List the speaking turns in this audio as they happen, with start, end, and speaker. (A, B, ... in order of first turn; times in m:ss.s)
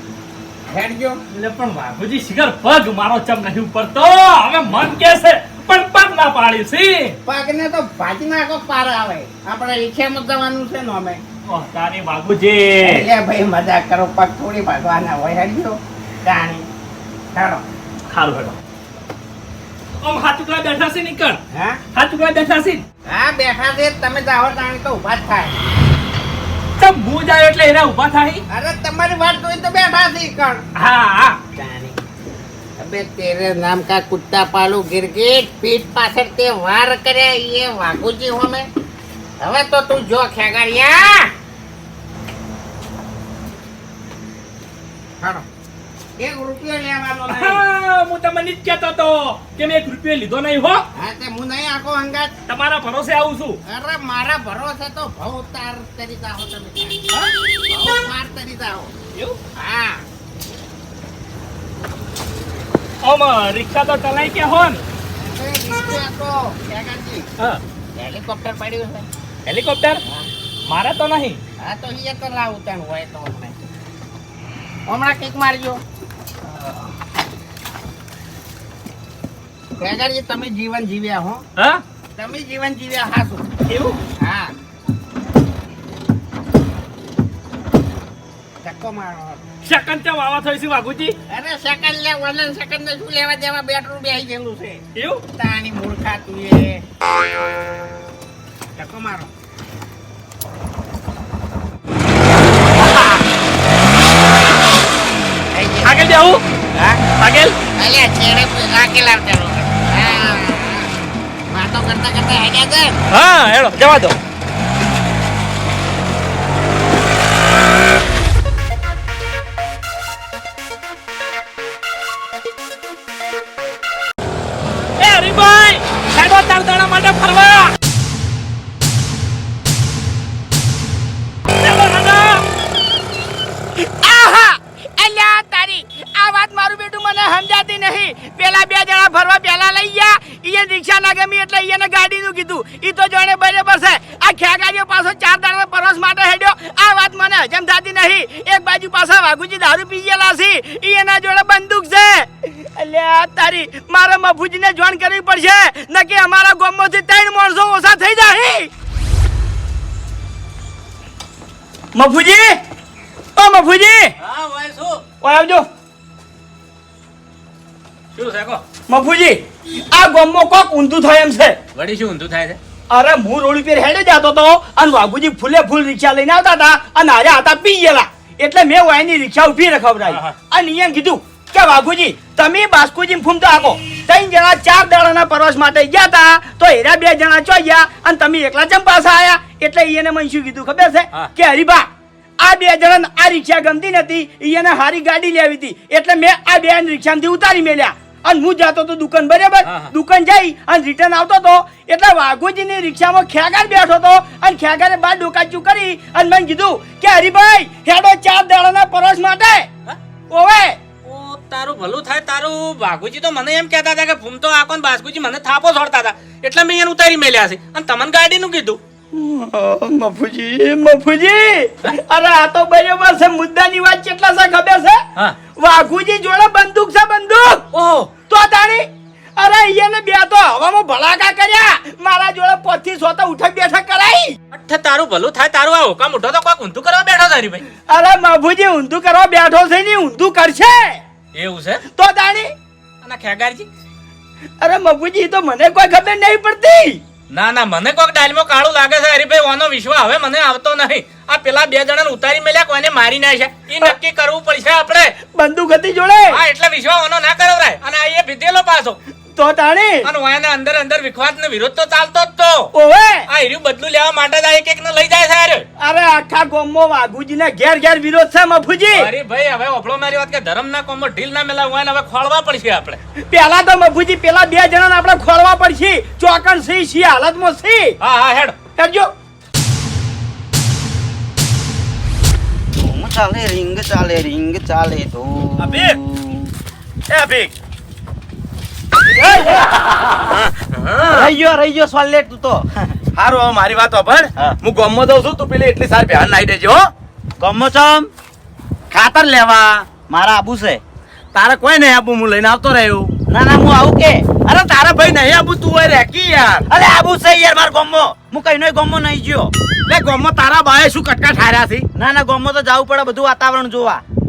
0:00.7-0:01.2 A
0:01.3-0:07.1 B
0:07.2-0:11.2 A
0:11.5-0:13.0 B
0:12.8-0:16.6 A
0:17.3-0:17.6 A
0:18.1-0:18.6 B
0:20.0-0:21.4 B
0:21.5-0:21.8 A
0:21.9-0:22.8 B
0:23.1-0:25.7 A
0:26.8-0:28.4 B
0:28.5-0:30.6 A
0:30.8-0:31.4 B
0:31.5-0:32.0 A
0:32.8-0:38.7 A
0:39.4-0:41.3 A
0:45.2-0:45.4 A
0:46.2-0:47.6 A
0:47.3-0:50.8 B
0:50.9-0:52.3 A
0:52.5-0:53.6 B
0:53.6-0:57.0 A
0:57.7-0:58.9 A
0:59.6-1:00.0 A
1:03.0-1:04.8 B
1:05.2-1:07.3 A
1:08.0-1:09.1 A
1:09.5-1:10.0 B
1:10.7-1:11.4 B
1:11.6-1:13.6 A
1:14.9-1:15.8 A
1:16.5-1:16.8 B
1:19.8-1:21.4 A
1:21.6-1:21.8 B
1:22.2-1:23.5 A
1:23.7-1:24.0 B
1:24.2-1:24.5 A
1:28.6-1:29.4 A
1:29.6-1:31.1 B
1:31.3-1:34.8 A
1:34.9-1:35.2 B
1:35.4-1:36.8 A
1:38.8-1:39.3 A
1:42.8-1:43.2 B
1:45.5-1:46.0 A
1:45.8-1:46.4 B
1:46.7-1:47.0 A
1:47.0-1:47.6 B
1:47.8-1:50.9 A
1:51.5-1:53.0 A
1:53.1-1:54.2 B
2:05.0-2:07.7 B
2:11.6-2:12.4 B
2:13.8-2:38.7 C
2:41.9-2:42.6 C
2:43.4-2:44.1 C
2:44.2-2:45.0 D
2:45.2-2:45.6 C
2:48.1-2:48.6 D
2:48.9-2:49.4 C
2:49.9-2:51.6 C
2:51.7-2:52.6 D
2:52.9-3:11.9 C
3:00.0-3:00.3 D
3:12.4-3:29.7 C
3:19.6-3:19.9 D
3:30.3-3:30.8 C
3:31.0-3:38.8 D
3:39.1-3:45.0 C
3:45.6-3:47.6 C
3:47.7-3:48.1 D
3:48.3-3:48.9 C
3:49.4-3:54.4 C
3:54.5-3:57.6 D
3:57.9-4:01.0 C
4:01.3-4:01.8 D
4:02.0-4:02.5 C
4:03.0-4:03.7 D
4:04.6-4:07.0 C
4:07.3-4:15.1 D
4:15.3-4:16.4 C
4:16.3-4:19.0 D
4:19.4-4:20.1 C
4:20.0-4:22.7 D
4:22.7-4:23.2 C
4:23.3-4:25.6 D
4:25.8-4:29.1 C
4:28.9-4:33.0 D
4:33.3-4:38.0 C
4:38.0-4:38.5 D
4:38.8-4:39.1 C
4:42.8-4:46.5 E
4:45.6-4:46.0 F
4:47.1-4:47.5 F
4:49.1-4:49.6 F
4:50.3-4:51.3 F
4:51.1-4:53.0 E
4:53.2-4:56.8 F
4:57.4-4:58.1 E
4:58.9-4:59.9 F
4:59.9-5:00.8 E
5:01.3-5:03.1 F
5:03.3-5:04.4 E
5:04.4-5:06.6 F
5:06.7-5:09.5 E
5:09.9-5:11.9 F
5:12.0-5:14.0 E